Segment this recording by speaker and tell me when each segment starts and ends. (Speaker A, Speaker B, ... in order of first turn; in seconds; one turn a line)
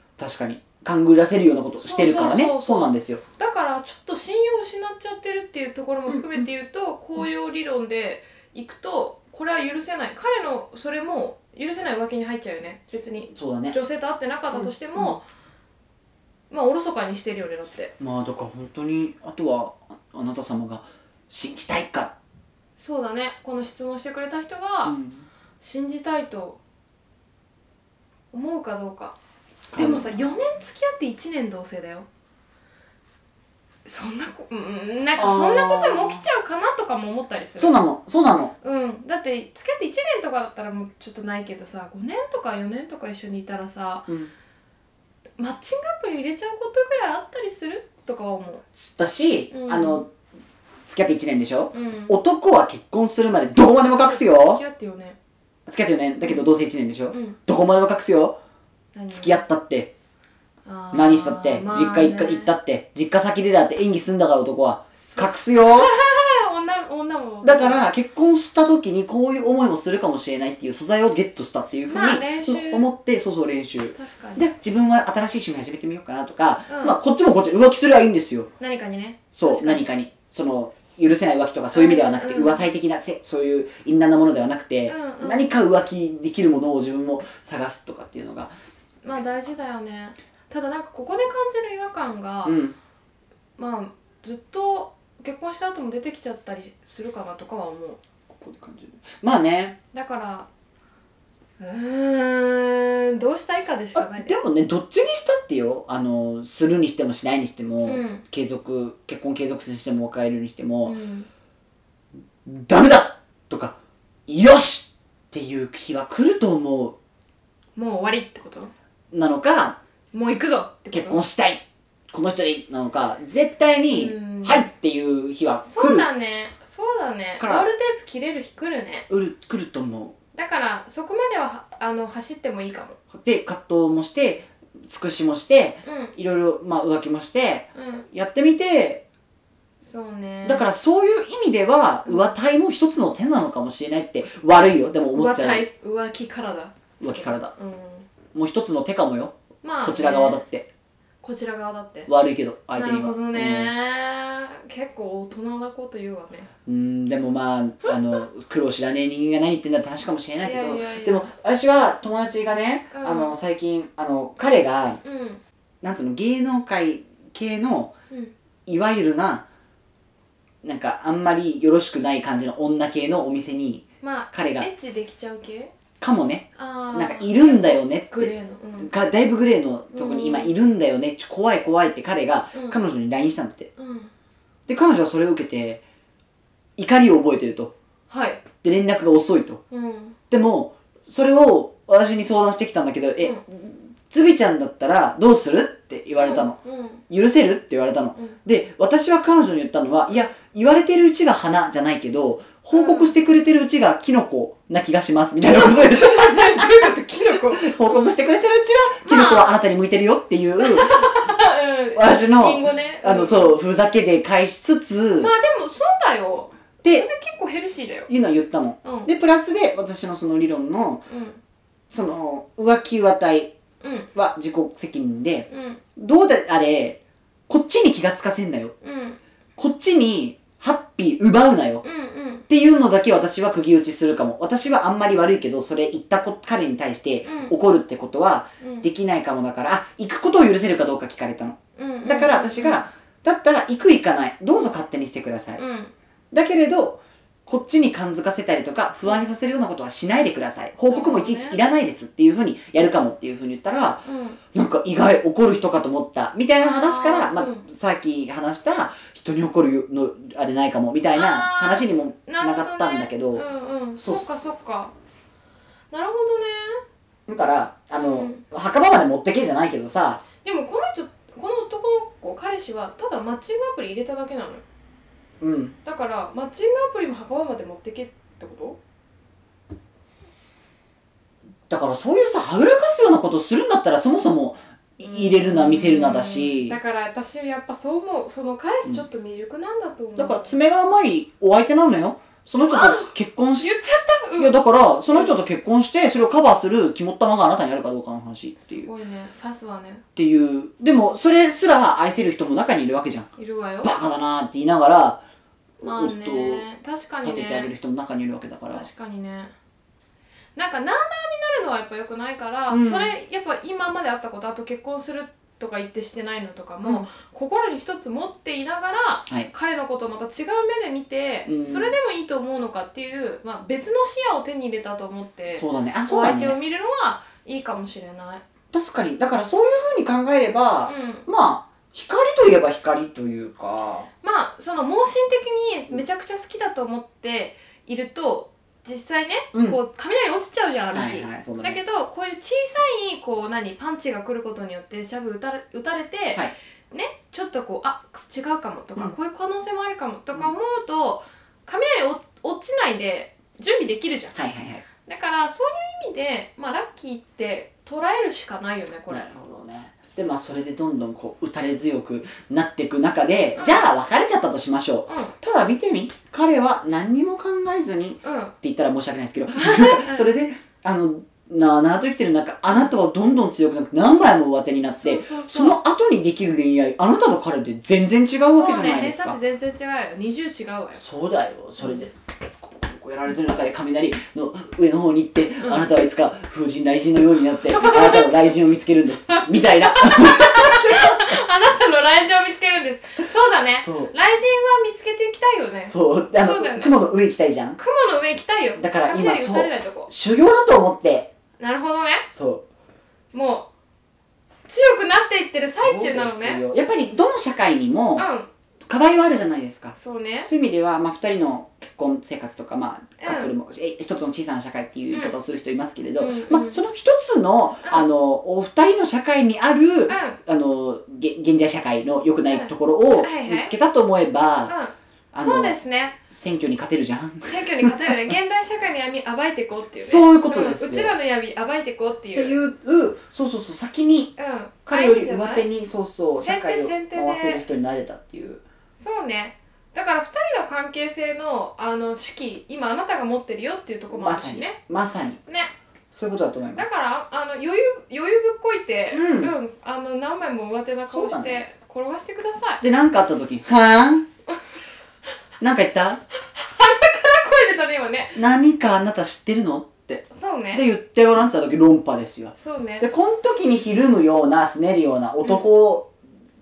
Speaker A: 0.2-3.2
Speaker B: 1.8-15.2
Speaker A: 6.1-6.4
Speaker A: 13.3-13.8
Speaker A: 14.5-15.2
Speaker B: 16.5-17.9
Speaker A: 18.0-22.1
Speaker B: 22.8-25.0
Speaker A: 24.8-25.2
Speaker B: 25.6-26.6
Speaker B: 28.3-29.1
Speaker A: 29.7-30.1
Speaker B: 29.7-32.1
Speaker B: 33.8-37.8
Speaker A: 35.1-36.2
Speaker A: 37.5-38.5
Speaker B: 38.6-44.1
Speaker A: 44.1-44.3
Speaker B: 45.4-48.6
Speaker A: 48.8-50.1
Speaker B: 49.5-50.0
Speaker A: 50.9-54.6
Speaker B: 51.7-52.2
Speaker B: 53.9-55.2
Speaker A: 55.7-58.4
Speaker B: 57.1-57.4
Speaker B: 58.9-59.4
Speaker A: 59.1-59.9
Speaker B: 60.6-62.5
Speaker A: 60.9-65.9
Speaker B: 65.0-67.9
Speaker A: 67.4-78.5
Speaker B: 71.9-72.9
Speaker B: 74.0-74.4
Speaker B: 76.7-77.0
Speaker B: 78.6-79.9
Speaker A: 79.3-88.5
Speaker B: 81.7-82.6
Speaker B: 84.9-85.5
Speaker B: 89.0-92.6
Speaker A: 92.4-92.8
Speaker B: 93.6-98.0
Speaker A: 98.3-99.8
Speaker B: 99.9-100.5
Speaker B: 101.6-104.3
Speaker A: 103.9-111.0
Speaker B: 107.8-108.2
Speaker B: 110.8-111.3
Speaker A: 112.4-113.8
Speaker A: 114.3-117.0
Speaker B: 117.8-118.7
Speaker A: 119.1-119.8
Speaker B: 120.1-121.2
Speaker A: 120.9-126.1
Speaker B: 123.9-124.7
Speaker B: 125.6-129.1
Speaker A: 127.4-127.7
Speaker A: 129.1-130.1
Speaker B: 130.3-133.0
Speaker A: 133.1-139.0
Speaker B: 135.8-136.1
Speaker B: 137.7-138.1
Speaker B: 139.8-140.6
Speaker A: 140.4-145.7
Speaker B: 142.0-142.3
Speaker B: 145.1-148.1
Speaker A: 147.0-147.5
Speaker A: 148.3-150.7
Speaker B: 149.6-150.4
Speaker B: 151.2-152.1
Speaker A: 152.1-153.7
Speaker B: 152.7-156.5
Speaker A: 156.7-165.0
Speaker B: 160.4-161.2
Speaker B: 162.9-163.3
Speaker B: 165.0-165.4
Speaker A: 165.8-167.9
Speaker A: 168.7-169.4
Speaker A: 170.6-174.7
Speaker B: 174.0-175.7
Speaker A: 176.0-183.7
Speaker B: 176.6-178.9
Speaker B: 179.9-180.5
Speaker B: 182.5-182.8
Speaker B: 183.8-184.1
Speaker A: 184.7-185.8
Speaker A: 186.8-187.7
Speaker B: 188.1-188.4
Speaker A: 188.6-189.6
Speaker B: 189.7-190.2
Speaker A: 190.3-196.6
Speaker B: 196.2-197.0
Speaker A: 197.1-211.2
Speaker B: 202.7-203.1
Speaker B: 205.5-208.2
Speaker B: 209.0-209.6
Speaker B: 210.6-213.6
Speaker A: 211.9-215.3
Speaker B: 215.2-218.1
Speaker A: 218.1-221.0
Speaker B: 218.8-219.1
Speaker B: 221.1-221.4
Speaker A: 221.9-223.5
Speaker B: 223.8-224.1
Speaker A: 224.1-228.7
Speaker B: 225.5-225.8
Speaker B: 228.8-229.2
Speaker A: 229.6-231.8
Speaker B: 231.8-232.4
Speaker A: 232.5-245.6
Speaker B: 237.2-237.5
Speaker B: 238.6-238.9
Speaker B: 241.8-242.8
Speaker B: 245.6-245.9
Speaker A: 246.3-263.4
Speaker B: 250.9-251.6
Speaker B: 254.1-254.4
Speaker B: 256.6-257.6
Speaker B: 261.1-264.9
Speaker A: 264.0-264.4
Speaker B: 265.9-266.8
Speaker A: 267.3-270.2
Speaker B: 267.9-268.4
Speaker B: 270.4-274.6
Speaker A: 275.4-275.8
Speaker B: 275.8-278.8
Speaker A: 281.7-286.8
Speaker B: 285.0-290.5
Speaker A: 290.1-293.8
Speaker B: 292.6-294.6
Speaker A: 294.4-298.9
Speaker B: 298.6-300.0
Speaker A: 300.1-303.3
Speaker B: 303.4-303.9
Speaker A: 303.8-305.2
Speaker A: 305.8-306.6
Speaker B: 305.8-307.7
Speaker A: 307.2-308.9
Speaker B: 308.7-309.5
Speaker B: 310.6-328.4
Speaker A: 312.7-313.1
Speaker A: 321.4-321.9
Speaker A: 325.5-326.6
Speaker A: 328.7-334.1
Speaker B: 330.9-331.3
Speaker B: 334.2-354.4
Speaker A: 339.5-339.8
Speaker A: 340.9-341.8
Speaker A: 354.3-354.8
Speaker B: 355.0-359.3
Speaker A: 359.1-379.4
Speaker B: 363.6-363.9
Speaker B: 365.1-365.3
Speaker B: 368.2-368.5
Speaker B: 369.6-370.3
Speaker B: 375.0-375.8
Speaker B: 378.5-381.0
Speaker A: 380.9-391.3
Speaker B: 385.6-385.9
Speaker B: 387.6-388.5
Speaker B: 389.3-396.9
Speaker A: 393.8-394.1
Speaker A: 395.9-397.8
Speaker B: 397.8-400.1
Speaker A: 398.8-401.3
Speaker B: 401.6-402.3
Speaker A: 402.3-402.6
Speaker B: 403.3-403.7
Speaker B: 404.7-406.6
Speaker A: 405.8-408.3
Speaker B: 408.1-408.5
Speaker A: 408.9-424.7
Speaker B: 409.9-410.5
Speaker B: 413.2-413.5
Speaker B: 416.2-416.8
Speaker B: 420.1-420.4
Speaker B: 422.4-423.7
Speaker B: 424.7-426.2
Speaker A: 425.3-425.8
Speaker A: 426.3-428.3
Speaker B: 427.4-432.6
Speaker A: 429.9-431.1
Speaker A: 432.3-434.3
Speaker B: 434.4-435.6
Speaker A: 434.9-438.6
Speaker B: 436.4-437.6
Speaker B: 439.0-444.8
Speaker A: 444.1-445.4
Speaker B: 445.5-445.7
Speaker A: 446.1-446.9
Speaker B: 446.8-452.8
Speaker A: 449.1-449.5
Speaker A: 451.1-451.6
Speaker A: 452.8-454.2
Speaker A: 455.6-456.2
Speaker B: 456.5-458.4
Speaker A: 458.3-466.1
Speaker B: 460.3-460.8
Speaker B: 462.6-463.1